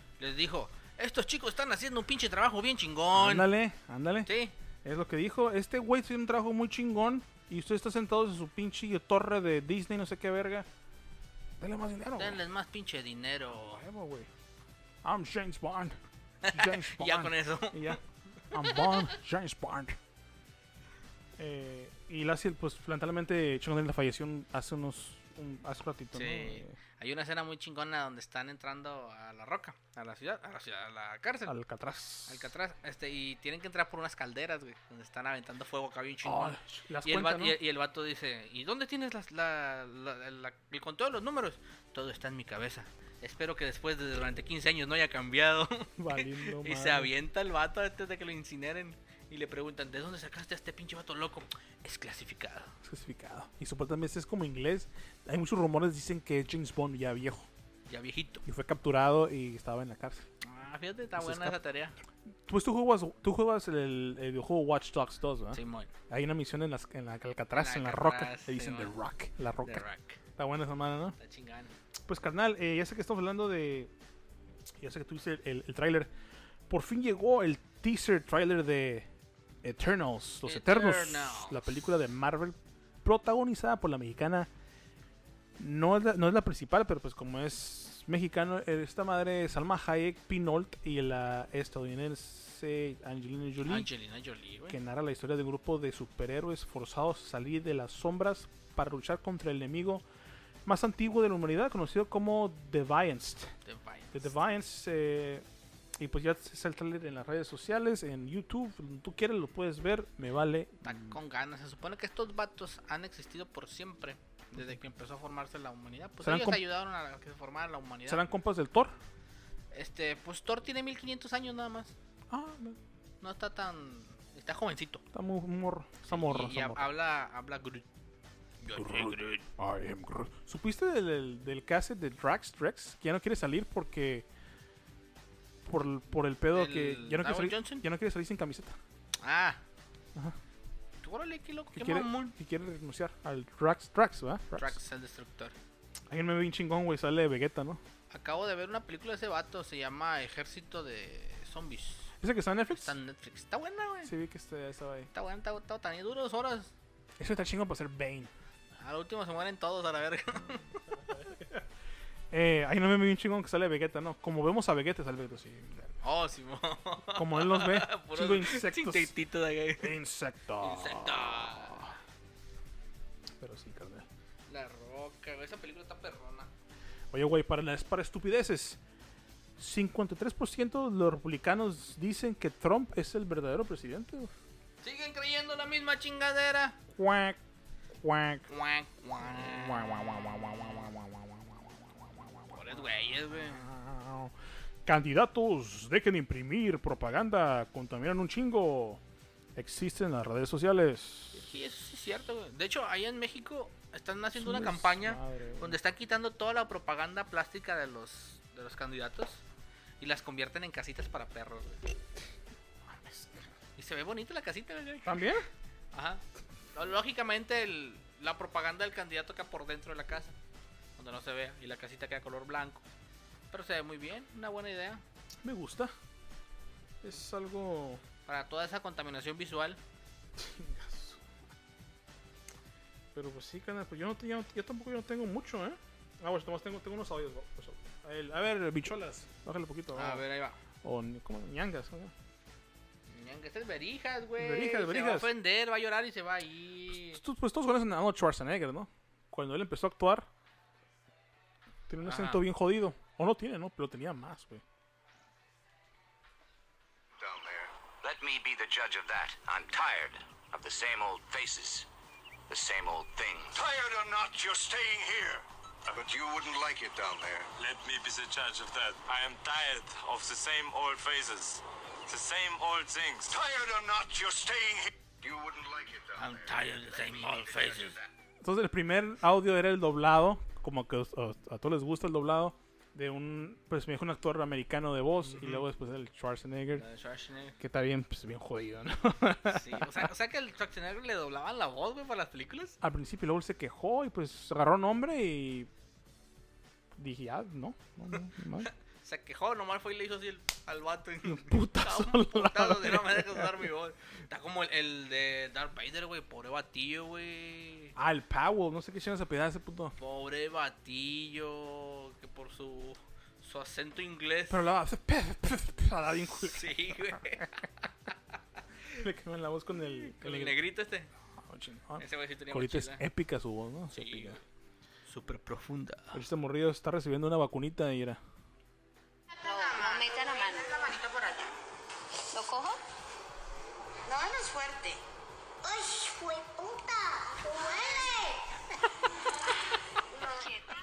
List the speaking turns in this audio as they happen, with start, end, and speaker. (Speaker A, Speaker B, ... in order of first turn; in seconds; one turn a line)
Speaker A: 0.2-3.5
Speaker B: 3.1-4.3
Speaker A: 4.3-4.5
Speaker B: 4.8-10.7
Speaker B: 11.6-12.4
Speaker A: 12.2-13.8
Speaker B: 13.5-14.3
Speaker B: 15.0-18.0
Speaker A: 16.4-18.0
Speaker B: 18.5-20.0
Speaker A: 18.5-19.0
Speaker B: 21.4-26.8
Speaker A: 26.1-31.6
Speaker B: 31.4-32.5
Speaker A: 32.2-52.7
Speaker B: 36.2-37.6
Speaker B: 46.0-47.1
Speaker B: 52.8-57.5
Speaker A: 57.9-58.4
Speaker B: 58.5-60.3
Speaker A: 60.4-62.0
Speaker B: 61.2-61.6
Speaker B: 62.5-69.9
Speaker A: 65.5-65.9
Speaker A: 67.5-68.9
Speaker A: 69.6-70.2
Speaker B: 70.4-71.2
Speaker A: 71.2-71.7
Speaker B: 72.1-73.9
Speaker B: 74.8-76.1
Speaker B: 76.7-79.1
Speaker B: 79.6-84.5
Speaker A: 80.4-81.8
Speaker B: 85.6-93.9
Speaker A: 93.6-94.8
Speaker B: 94.7-100.0
Speaker B: 100.7-103.5
Speaker A: 103.7-104.3
Speaker B: 104.1-105.5
Speaker B: 106.0-111.2
Speaker A: 110.8-118.2
Speaker B: 116.2-116.6
Speaker B: 118.1-119.0
Speaker A: 119.7-121.9
Speaker B: 122.3-122.8
Speaker A: 123.2-125.0
Speaker B: 125.1-126.9
Speaker A: 126.1-127.9
Speaker A: 128.6-129.4
Speaker B: 128.7-134.3
Speaker B: 135.7-138.8
Speaker A: 136.5-137.8
Speaker A: 139.2-139.6
Speaker A: 141.0-142.3
Speaker B: 141.7-144.8
Speaker A: 144.6-145.6
Speaker B: 146.1-147.8
Speaker A: 148.1-152.1
Speaker B: 152.2-152.9
Speaker A: 152.7-154.1
Speaker B: 154.0-155.1
Speaker A: 155.1-156.7
Speaker B: 157.2-158.3
Speaker A: 158.8-160.9
Speaker B: 161.0-161.6
Speaker B: 162.3-166.0
Speaker A: 166.0-169.9
Speaker B: 167.1-169.1
Speaker B: 169.8-171.9
Speaker A: 170.6-171.9
Speaker B: 173.4-174.1
Speaker A: 174.5-176.5
Speaker B: 177.1-178.8
Speaker B: 179.6-184.3
Speaker A: 184.8-186.8
Speaker B: 186.9-187.4
Speaker B: 187.9-188.5
Speaker A: 188.5-190.9
Speaker B: 189.2-191.4
Speaker A: 192.5-193.7
Speaker B: 193.3-194.3
Speaker B: 194.8-199.0
Speaker B: 199.6-201.5
Speaker A: 201.3-209.4
Speaker B: 204.3-205.8
Speaker A: 210.0-211.8
Speaker B: 212.9-213.5
Speaker A: 213.8-215.3
Speaker B: 215.1-215.4
Speaker A: 215.9-216.2
Speaker A: 216.7-220.3
Speaker A: 221.0-222.8
Speaker A: 223.5-225.0
Speaker B: 225.4-225.9
Speaker B: 227.0-228.0
Speaker A: 228.3-229.8
Speaker B: 230.4-231.2
Speaker B: 233.1-240.2
Speaker A: 239.9-240.6
Speaker B: 240.8-242.1
Speaker A: 243.1-247.2
Speaker B: 244.4-245.3
Speaker B: 247.1-250.3
Speaker B: 251.9-254.6
Speaker A: 252.1-252.4
Speaker C: 257.2-257.7
Speaker D: 258.0-261.9
Speaker D: 262.5-263.6
Speaker C: 263.5-267.5
Speaker E: 267.6-273.4
Speaker C: 273.3-276.8
Speaker A: 276.2-278.0
Speaker D: 277.0-278.1
Speaker B: 278.4-286.9
Speaker A: 285.2-285.6
Speaker A: 286.7-287.6
Speaker B: 287.6-290.1
Speaker A: 289.4-292.8
Speaker B: 292.8-295.7
Speaker B: 296.9-298.7
Speaker A: 298.6-307.9
Speaker B: 301.2-303.7
Speaker B: 307.9-309.9
Speaker A: 310.0-314.6
Speaker B: 314.5-317.4
Speaker A: 316.4-317.6
Speaker B: 318.9-320.6
Speaker A: 320.1-321.1
Speaker B: 321.4-324.4
Speaker A: 322.0-323.0
Speaker A: 323.9-324.4
Speaker A: 325.1-326.2
Speaker B: 326.1-328.2
Speaker F: 329.4-330.9
Speaker G: 329.6-331.5
Speaker F: 332.3-332.8
Speaker G: 334.1-335.0
Speaker G: 335.6-338.4
Speaker F: 340.3-340.6